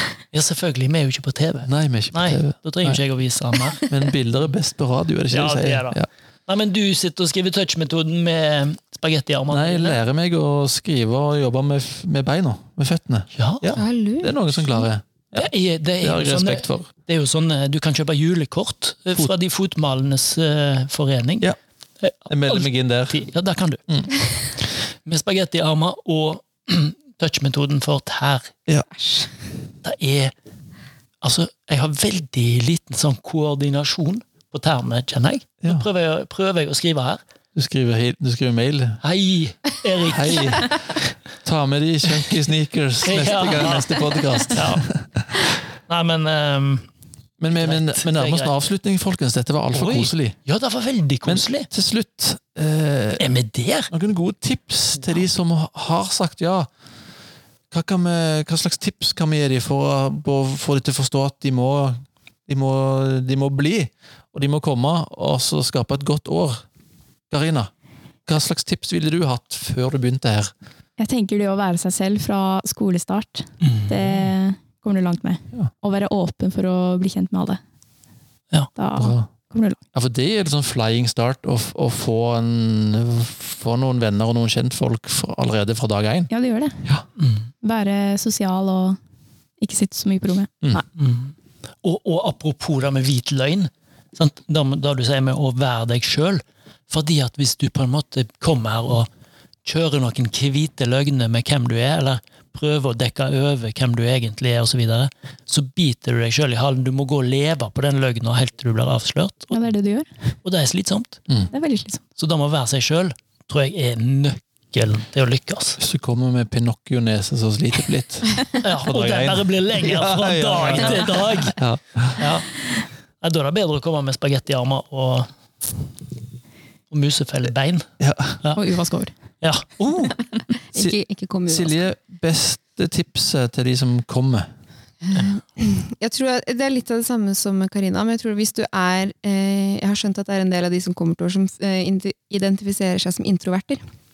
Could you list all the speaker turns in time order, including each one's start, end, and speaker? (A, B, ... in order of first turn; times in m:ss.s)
0:00.3-0:03.8 A
0:01.6-0:03.0 B
0:03.8-0:06.0 B
0:05.3-0:10.0 A
0:09.5-0:16.9 B
0:13.3-0:13.7 A
0:13.8-0:14.8 C
0:15.3-0:21.5 A
0:22.0-0:23.8 A
0:22.3-0:23.2 B
0:24.9-0:28.5 A
0:28.9-0:29.3 C
0:29.8-0:30.3 A
0:31.2-0:37.2 A
0:37.5-0:39.0 B
0:39.0-0:40.7 A
0:40.0-0:45.5 B
0:43.0-0:44.8 A
0:45.9-0:46.9 A
0:47.4-0:50.4 B
0:47.6-0:48.5 A
0:49.7-0:51.7 A
0:51.2-0:53.3 B
0:53.2-0:53.9 A
0:53.9-0:56.7 B
0:57.7-1:06.6 B
1:07.3-1:07.7 B
1:08.2-1:10.5 B
1:11.0-1:17.6 D
1:13.6-1:14.3 A
1:18.8-1:19.8 D
1:19.0-1:19.3 B
1:19.9-1:26.3 B
1:26.3-1:26.8 D
1:27.2-1:27.5 A
1:27.6-1:29.0 D
1:29.6-1:30.8 D
1:31.0-1:39.1 A
1:39.6-1:49.6 A
1:49.5-1:50.1 D
1:50.4-1:51.2 A
1:51.5-1:52.0 D
1:52.2-1:55.8 A
1:55.8-2:02.2 B
1:58.6-2:01.6 A
2:02.2-2:02.5 A
2:03.2-2:05.3 A
2:06.9-2:07.9 A
2:08.0-2:08.4 B
2:08.6-2:09.1 D
2:09.4-2:10.2 A
2:10.4-2:11.8 C
2:10.7-2:14.5 B
2:15.0-2:23.8 C